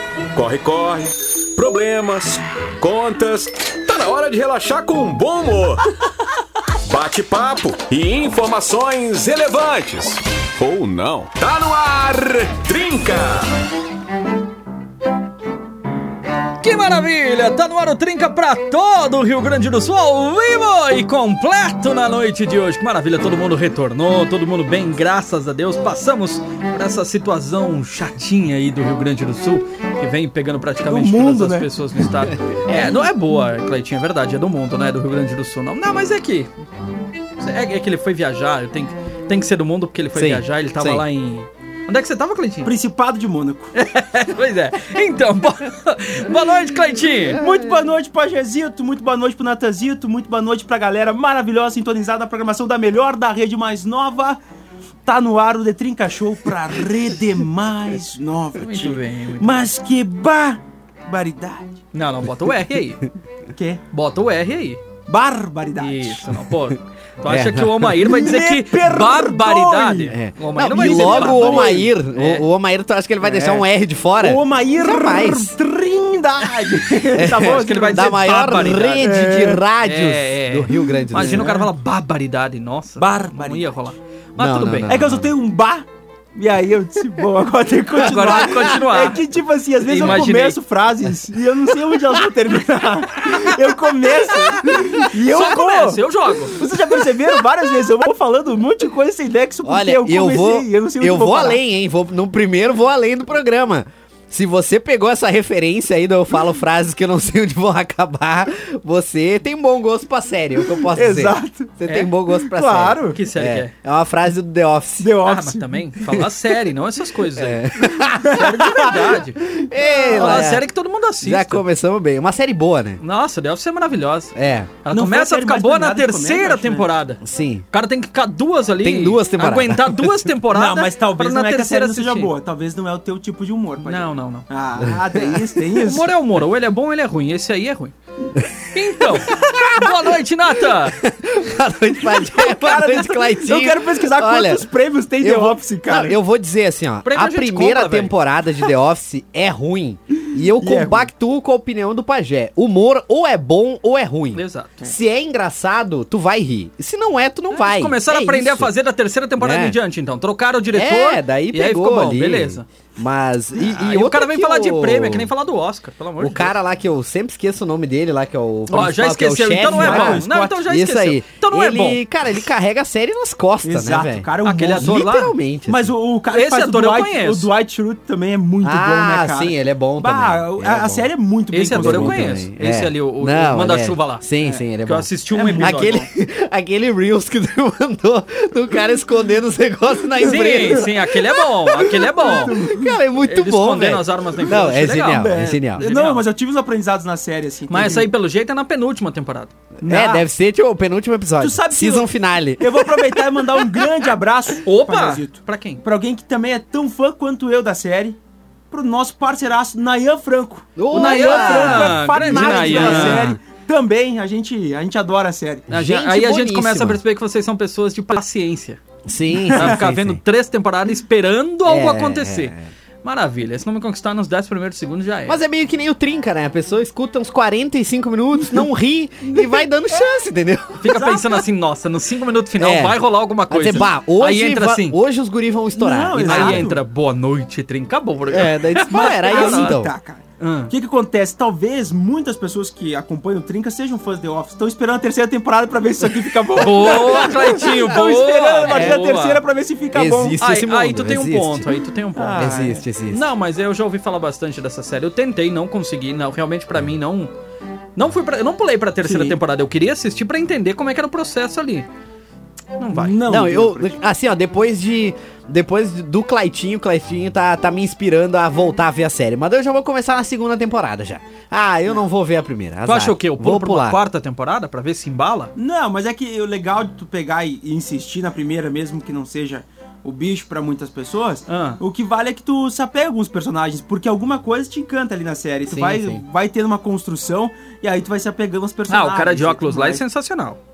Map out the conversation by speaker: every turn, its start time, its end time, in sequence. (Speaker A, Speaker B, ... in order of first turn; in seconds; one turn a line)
Speaker A: 0.3-5.8
Speaker A: 6.9-13.6
Speaker B: 16.6-36.5
Speaker C: 30.9-31.7
Speaker D: 32.2-33.0
Speaker B: 37.4-42.7
Speaker D: 40.1-41.0
Speaker C: 42.6-43.7
Speaker B: 43.8-47.4
Speaker C: 47.4-54.4
Speaker C: 55.1-61.8
Speaker B: 58.6-59.7
Speaker B: 61.9-63.0
Speaker C: 63.5-63.8
Speaker B: 63.9-64.8
Speaker C: 65.1-66.3
Speaker B: 65.8-72.5
Speaker D: 67.3-68.0
Speaker C: 68.0-70.2
Speaker D: 70.1-75.5
Speaker C: 70.7-71.9
Speaker C: 73.2-73.6
Speaker C: 74.2-78.2
Speaker D: 77.2-81.5
Speaker B: 77.4-79.1
Speaker C: 79.0-79.6
Speaker B: 79.8-85.0
Speaker C: 81.2-81.7
Speaker C: 83.0-83.9
Speaker D: 84.4-85.3
Speaker C: 84.9-96.0
Speaker B: 87.9-89.2
Speaker D: 88.2-88.8
Speaker B: 89.9-90.6
Speaker B: 95.1-96.6
Speaker C: 96.6-101.6
Speaker D: 96.6-97.2
Speaker D: 99.7-115.1
Speaker C: 110.9-111.8
Speaker C: 112.4-113.2
Speaker B: 113.1-113.7
Speaker C: 115.0-115.8
Speaker B: 115.2-119.4
Speaker D: 117.3-120.7
Speaker C: 118.2-119.2
Speaker C: 119.8-120.5
Speaker B: 120.2-121.6
Speaker D: 121.2-123.0
Speaker B: 123.0-124.3
Speaker D: 124.3-124.7
Speaker B: 124.8-127.2
Speaker C: 124.9-126.9
Speaker D: 127.2-127.7
Speaker B: 127.7-132.3
Speaker D: 128.8-130.3
Speaker C: 130.5-136.1
Speaker B: 133.8-134.5
Speaker D: 134.8-135.4
Speaker B: 135.8-137.9
Speaker B: 138.7-141.0
Speaker D: 139.1-139.9
Speaker D: 140.7-144.7
Speaker C: 142.2-146.2
Speaker D: 145.2-158.7
Speaker B: 147.1-148.2
Speaker C: 150.6-151.1
Speaker B: 154.3-154.8
Speaker B: 157.5-162.7
Speaker D: 159.4-159.8
Speaker D: 160.7-165.3
Speaker B: 163.6-166.5
Speaker D: 166.2-175.9
Speaker B: 168.7-172.0
Speaker C: 169.6-170.6
Speaker C: 173.6-175.1
Speaker B: 174.4-175.3
Speaker C: 175.7-182.4
Speaker B: 176.3-177.5
Speaker D: 178.6-181.1
Speaker B: 181.5-184.3
Speaker D: 181.7-195.8
Speaker B: 184.8-186.0
Speaker C: 185.3-186.0
Speaker B: 190.2-192.5
Speaker C: 190.4-190.7
Speaker C: 191.9-193.0
Speaker B: 193.2-196.2
Speaker C: 194.5-198.1
Speaker B: 197.7-199.5
Speaker C: 199.8-200.3
Speaker D: 199.8-203.8
Speaker C: 201.4-208.2
Speaker B: 204.7-205.8
Speaker C: 208.7-215.7
Speaker D: 210.8-213.4
Speaker B: 210.9-213.3
Speaker D: 215.7-217.0
Speaker B: 215.7-218.8
Speaker D: 219.1-220.2
Speaker C: 219.5-219.8
Speaker B: 219.5-225.4
Speaker D: 221.7-222.7
Speaker D: 225.3-231.2
Speaker B: 230.8-235.0
Speaker C: 230.9-231.2
Speaker D: 232.6-236.7
Speaker C: 235.8-236.8
Speaker B: 236.2-239.8
Speaker D: 238.3-239.9
Speaker C: 239.0-250.4
Speaker B: 240.4-240.7
Speaker B: 246.6-249.4
Speaker D: 248.7-249.1
Speaker D: 249.9-251.7
Speaker B: 250.4-252.6
Speaker C: 252.2-252.8
Speaker D: 252.4-253.3
Speaker B: 253.1-257.3
Speaker B: 258.0-261.9
Speaker C: 259.0-259.4
Speaker B: 262.8-263.2
Speaker C: 262.9-264.0
Speaker D: 263.3-274.0
Speaker B: 272.8-275.5
Speaker C: 275.6-290.0
Speaker B: 281.5-281.8
Speaker D: 285.7-286.2
Speaker B: 288.9-290.6